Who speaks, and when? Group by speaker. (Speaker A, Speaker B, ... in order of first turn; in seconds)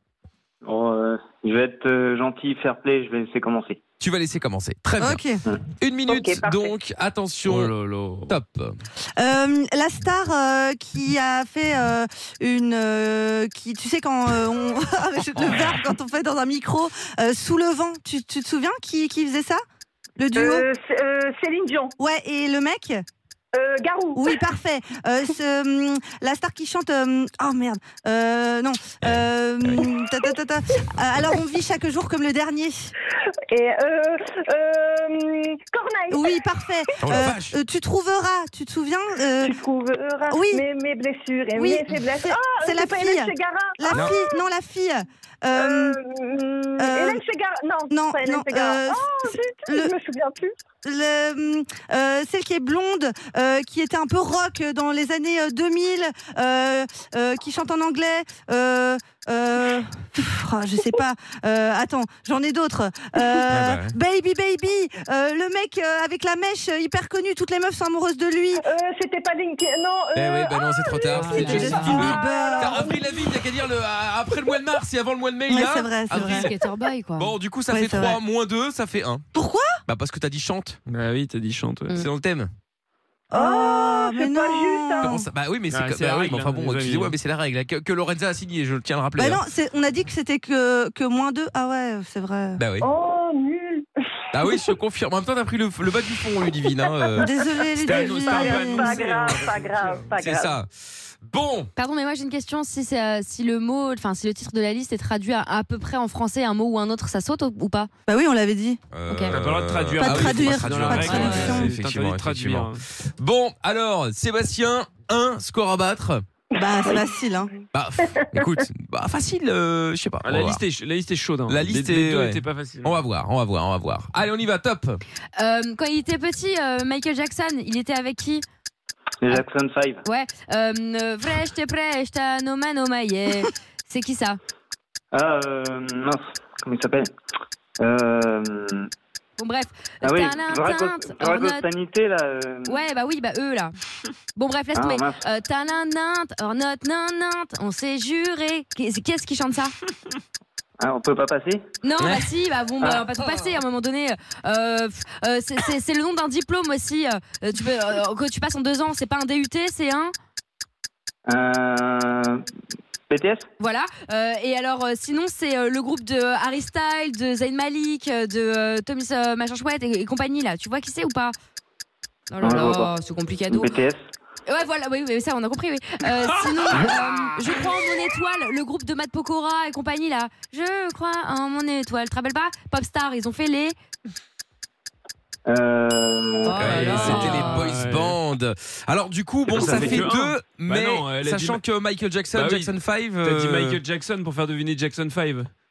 Speaker A: 0.6-3.8, 129.2-130.0, 135.1-137.1, 137.8-138.9, 140.0-142.8, 144.7-145.2, 150.8-151.6, 152.8-153.1, 161.2-162.4, 163.1-163.4, 172.4-172.9, 173.5-174.0, 185.5-187.0, 189.6-190.1
Speaker B: 4.0-5.2, 5.8-7.7, 8.3-8.8, 29.0-29.8, 37.0-37.6, 43.9-44.1, 63.5-64.0, 70.1-76.5, 77.2-79.2, 79.8-80.8, 81.9-82.5, 85.0-89.4, 92.6-92.9, 94.3-97.3, 100.2-100.7, 101.2-101.7, 108.9-116.2, 117.7-120.6, 121.5-125.0, 152.0-152.2, 186.6-193.8
Speaker C: 5.0-5.4, 9.2-19.6, 20.2-20.6, 22.0-23.0, 24.1-32.9, 36.1-39.5, 40.3-40.6, 41.5-46.0, 46.8-47.2, 47.9-49.9, 50.8-68.6, 71.3-72.9, 75.5-76.5, 77.7-78.2, 79.3-79.8, 83.3-85.2, 89.2-92.6, 97.2-99.0, 108.1-108.8, 110.0-111.7, 116.6-117.5
Speaker D: 6.1-6.8, 20.3-21.9, 23.6-24.2, 33.5-36.5, 39.4-44.3, 45.5-50.5, 68.6-73.5, 83.3-85.2, 92.8-93.9, 98.2-100.5, 116.6-117.0
Speaker E: 7.5-8.3, 80.9-82.0, 85.7-87.2, 97.7-100.1, 109.3-112.8, 120.2-123.0, 176.1-177.6, 186.7-188.2, 189.5-191.6, 192.3-195.5
Speaker F: 71.1-72.2, 76.2-77.3, 101.8-107.9, 109.1-109.3, 111.0-111.4, 125.4-128.4, 130.0-134.4, 139.4-141.7, 142.7-143.7, 144.3-149.8, 151.8-160.1, 163.6-171.3, 172.3-173.7, 174.4-183.8, 186.4-187.7